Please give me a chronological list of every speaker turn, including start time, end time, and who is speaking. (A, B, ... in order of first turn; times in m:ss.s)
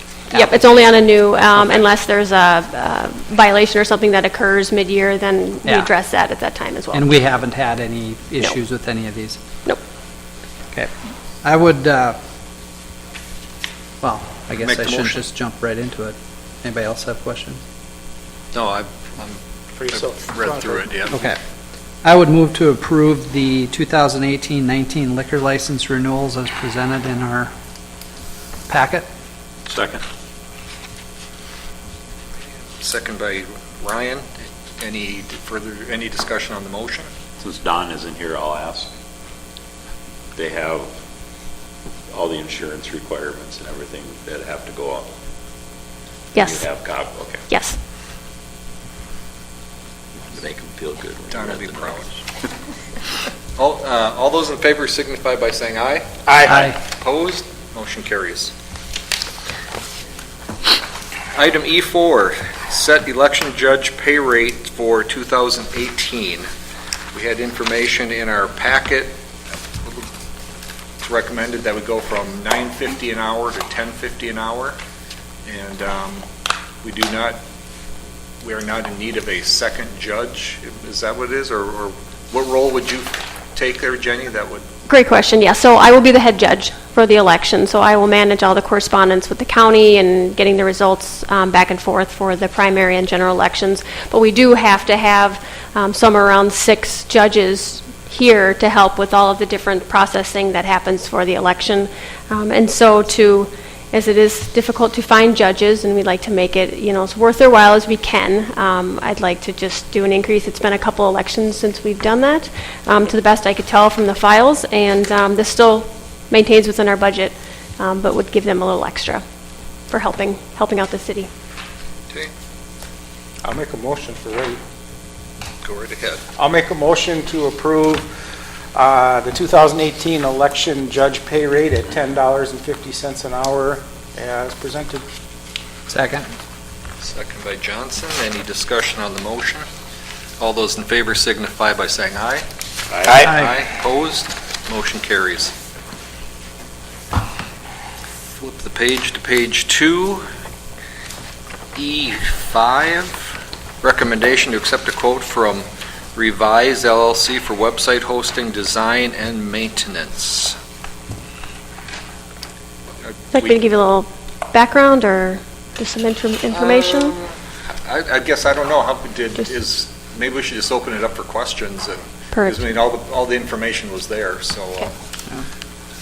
0:00.3-0:01.0 A
0:00.3-0:07.0 B
0:01.6-0:01.8 A
0:05.6-0:05.9 A
0:06.9-0:09.4 A
0:11.4-0:12.2 A
0:14.0-0:17.6 A
0:14.6-0:15.2 C
0:18.5-0:21.3 C
0:19.8-0:21.0 D
0:21.1-0:21.4 A
0:22.0-0:27.5 A
0:28.7-0:29.1 A
0:29.7-0:30.0 E
0:32.8-0:37.1 C
0:37.4-0:38.9 E
0:40.4-0:40.9 E
0:42.1-0:45.1 E
0:46.4-0:46.7 B
0:46.4-0:47.4 E
0:47.5-0:47.8 B
0:50.3-0:52.0 E
0:51.3-0:52.1 C
0:53.6-0:58.5 C
0:56.3-0:56.8 D
0:56.5-0:56.8 A
1:01.4-1:06.5 C
1:07.1-1:09.2 C
1:11.0-1:14.8 C
1:15.5-1:16.3 C
1:16.8-1:17.4 C
1:18.4-1:24.6 C
1:24.9-1:59.2 B
1:59.9-2:01.3 B
2:03.4-2:04.6 D
2:05.6-2:06.2 C
2:06.4-2:08.1 D
2:08.8-2:15.0 D
2:15.9-2:16.3 A
2:17.0-2:19.6 C
2:20.4-2:22.4 C
2:22.9-2:23.2 E
2:23.0-2:23.4 D
2:23.1-2:25.5 C
2:28.4-2:30.2 C
2:31.8-2:40.6 C
2:43.0-2:43.6 C
2:43.3-2:47.2 B
2:46.5-2:47.3 C
2:47.9-2:54.9 C
2:52.3-2:52.6 B